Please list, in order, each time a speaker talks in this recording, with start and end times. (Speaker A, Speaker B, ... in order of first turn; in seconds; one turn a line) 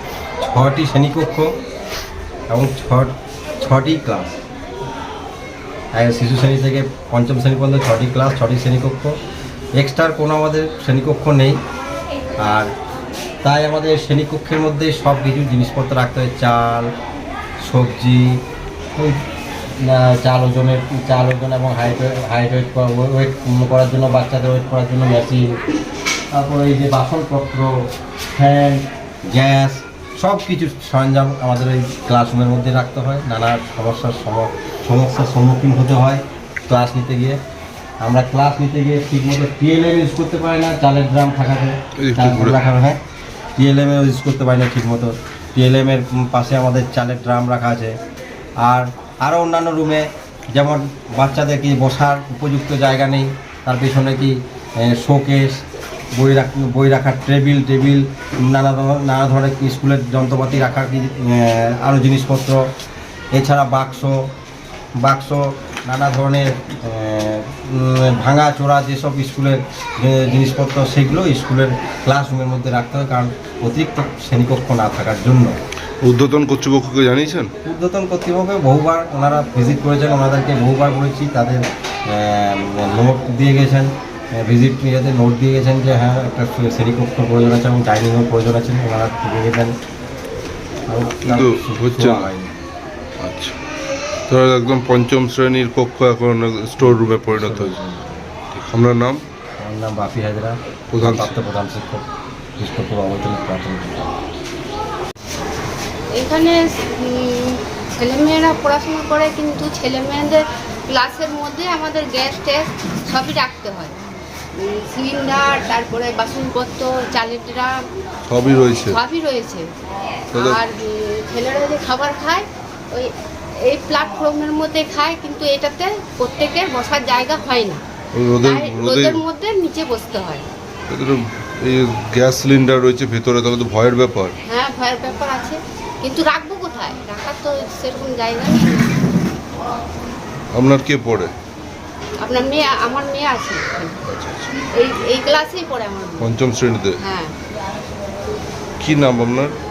Speaker A: 0.4-1.5
Speaker A: 2.5-4.3
Speaker A: 5.9-9.2
Speaker A: 9.8-11.6
Speaker A: 12.4-12.7
Speaker A: 13.4-16.9
Speaker A: 17.6-18.4
Speaker A: 18.9-19.2
Speaker A: 19.8-25.6
Speaker A: 26.3-27.8
Speaker A: 28.3-37.4
Speaker A: 38.0-43.0
Speaker B: 42.0-42.6
Speaker A: 43.6-48.0
Speaker A: 48.6-55.6
Speaker A: 56.1-62.6
Speaker A: 63.3-64.2
Speaker A: 65.0-75.6
Speaker B: 76.0-77.5
Speaker A: 77.6-89.7
Speaker A: 90.9-92.5
Speaker B: 91.2-92.3
Speaker B: 93.2-93.5
Speaker B: 94.3-97.8
Speaker A: 96.8-98.4
Speaker B: 98.5-99.2
Speaker A: 99.6-102.0
Speaker B: 100.9-101.3
Speaker A: 102.6-104.0
Speaker C: 106.1-113.9
Speaker C: 114.5-117.7
Speaker B: 118.3-119.0
Speaker C: 118.8-119.7
Speaker B: 120.3-120.6
Speaker C: 120.3-127.8
Speaker B: 128.1-129.2
Speaker C: 128.4-130.5
Speaker B: 130.9-134.3
Speaker C: 134.4-139.1
Speaker B: 140.5-141.3
Speaker C: 142.2-144.1
Speaker B: 144.0-144.5
Speaker C: 144.6-146.4
Speaker B: 146.2-147.0
Speaker C: 147.0-147.3
Speaker B: 148.8-149.5